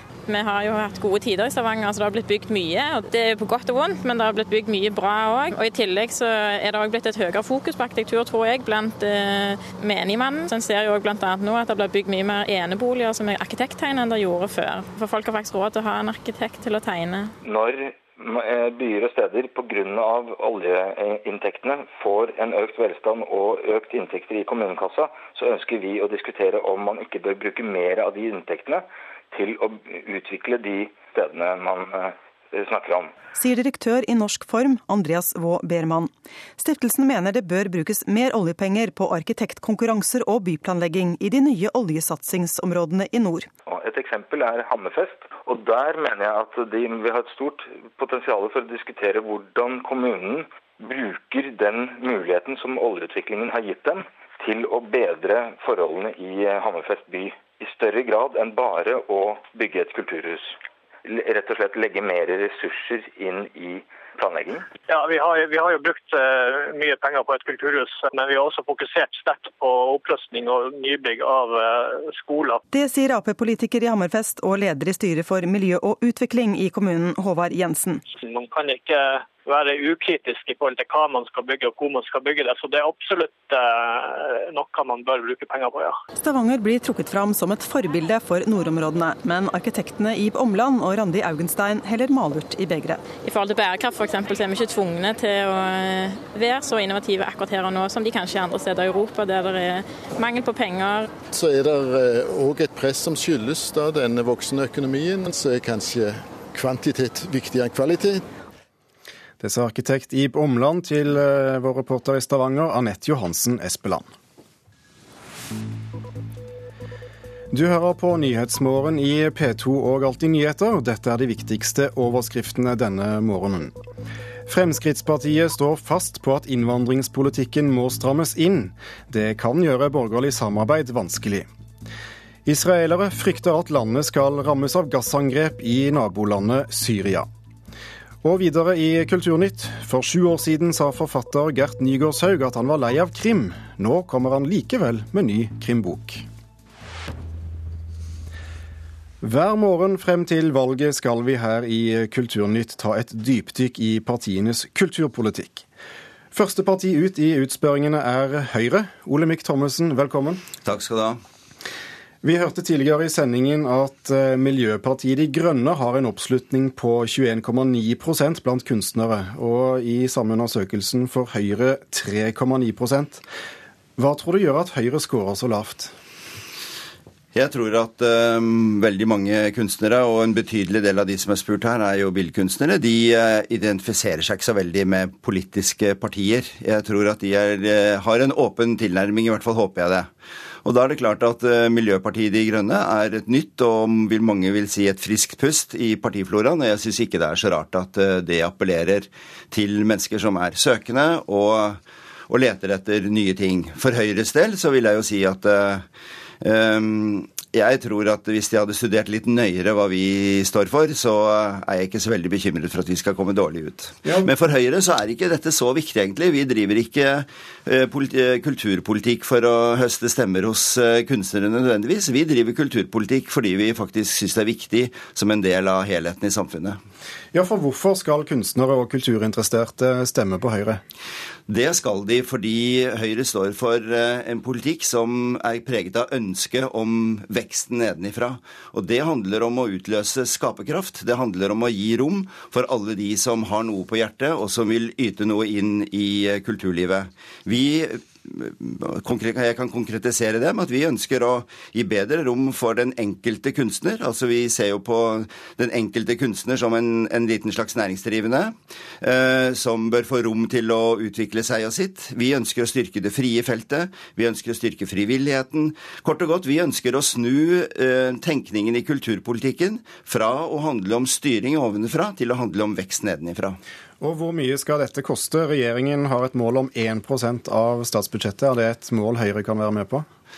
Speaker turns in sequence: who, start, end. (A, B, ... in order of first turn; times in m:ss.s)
0:00.3-0:17.3 A
0:17.4-0:33.1 B
0:33.3-0:43.5 C
0:43.6-1:04.7 B
1:04.9-1:12.6 D
1:12.7-1:18.0 C
1:18.1-1:26.0 D
1:26.2-1:33.0 C
1:33.2-1:41.1 A
1:41.3-1:48.2 E
1:49.4-1:54.1 F
1:57.5-2:03.8 F
2:04.5-2:11.5 F
2:12.4-2:17.3 F
2:18.2-2:26.2 F
2:29.2-2:35.6 F
2:36.3-2:40.4 F
2:40.6-2:41.2 G
2:42.2-2:53.2 F
2:54.0-2:55.9 F
2:57.3-3:10.1 G
3:10.6-3:25.8 G
3:26.4-3:46.8 G
3:34.0-3:34.3 F
3:47.3-3:50.8 F
3:51.5-4:33.6 G
4:34.0-4:40.0 F